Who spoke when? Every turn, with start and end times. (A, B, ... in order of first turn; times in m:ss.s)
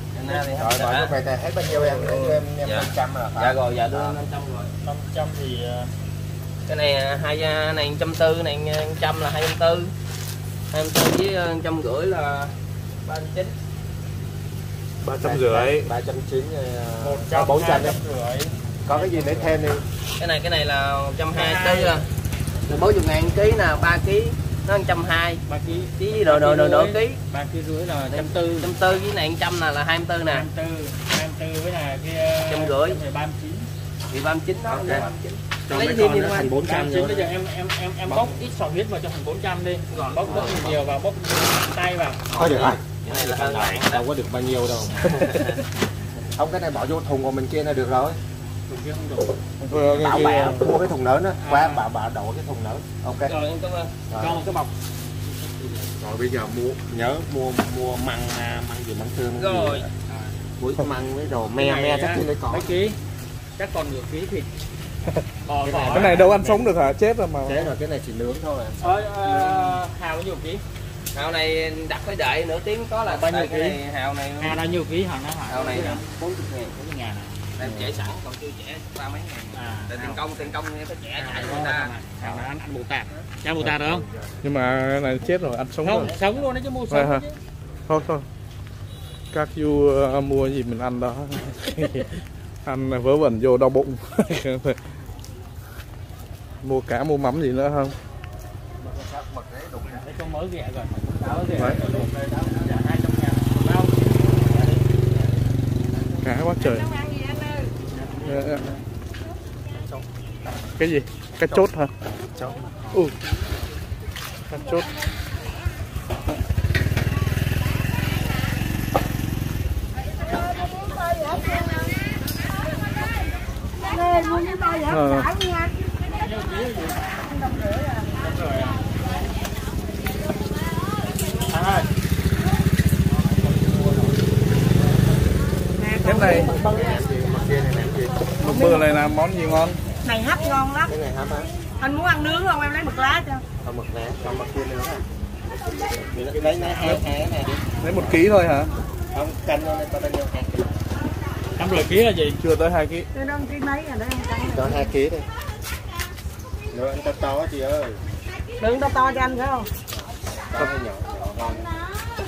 0:00.1-0:01.1 A
0:00.6-0:04.2 B
0:01.7-0:02.4 C
0:02.6-0:04.7 A
0:04.8-0:05.9 D
0:06.7-0:09.9 A
0:10.7-0:12.5 A
0:13.1-0:13.5 A
0:15.0-0:15.9 C
0:15.2-0:18.0 B
0:17.0-0:19.6 D
0:18.8-0:19.8 B
0:20.2-0:22.1 A
0:21.3-0:22.0 D
0:22.7-0:25.4 A
0:25.5-0:28.7 D
0:26.0-0:27.2 A
0:28.1-0:30.5 A
0:30.3-0:33.7 D
0:32.5-0:33.0 A
0:34.1-0:36.5 A
0:34.7-0:35.1 B
0:35.7-0:37.3 B
0:36.6-0:42.2 D
0:38.1-0:38.4 B
0:39.9-0:40.7 A
0:40.3-0:40.7 B
0:42.3-0:45.6 B
0:42.3-0:44.0 A
0:45.3-0:45.6 A
0:46.3-0:48.2 B
0:48.7-0:49.3 D
0:49.6-0:50.8 C
0:49.7-0:53.4 B
0:51.4-0:51.8 D
0:53.2-0:54.0 A
0:54.1-0:54.5 B
0:54.2-0:54.7 D
0:55.6-0:55.8 D
0:56.0-0:59.9 B
0:59.4-0:59.9 A
1:00.6-1:02.8 B
1:01.6-1:03.0 D
1:03.6-1:04.5 D
1:05.4-1:06.3 D
1:05.6-1:06.7 B
1:05.9-1:07.7 C
1:07.5-1:09.8 B
1:08.8-1:10.6 D
1:11.1-1:14.6 A
1:13.0-1:13.8 D
1:14.4-1:16.0 D
1:15.5-1:16.8 A
1:16.8-1:17.4 D
1:17.6-1:22.4 A
1:17.6-1:17.9 C
1:19.5-1:20.2 D
1:21.1-1:24.1 D
1:24.4-1:26.1 C
1:25.8-1:27.4 D
1:26.9-1:27.2 C
1:27.9-1:28.3 C
1:29.3-1:34.8 C
1:36.6-1:38.0 C
1:38.8-1:40.1 B
1:39.8-1:44.8 D
1:41.2-1:42.5 B
1:41.6-1:42.0 C
1:45.9-1:46.2 B
1:46.2-1:46.9 C
1:47.9-1:48.8 D
1:48.2-1:48.6 C
1:50.8-1:51.9 C
1:52.2-1:52.8 B
1:54.5-1:54.9 C
2:00.6-2:01.8 E
2:03.9-2:05.7 E
2:04.9-2:05.3 C
2:06.1-2:07.3 D
2:07.3-2:08.1 E
2:08.2-2:08.8 D
2:11.5-2:11.9 D
2:13.1-2:15.1 D
2:15.8-2:17.0 E
2:16.0-2:16.6 C
2:16.4-2:18.3 B
2:18.4-2:19.8 C
2:18.4-2:18.9 E
2:20.0-2:20.9 E
2:20.9-2:21.5 B
2:21.8-2:23.4 E
2:23.6-2:25.0 B
2:26.1-2:27.0 D
2:26.1-2:27.7 B
2:27.8-2:28.7 C
2:29.1-2:30.7 B
2:31.6-2:32.4 D
2:32.4-2:33.1 C
2:33.1-2:34.9 E
2:34.5-2:35.3 B
2:36.7-2:38.0 B
2:38.6-2:39.7 E
2:39.9-2:41.7 B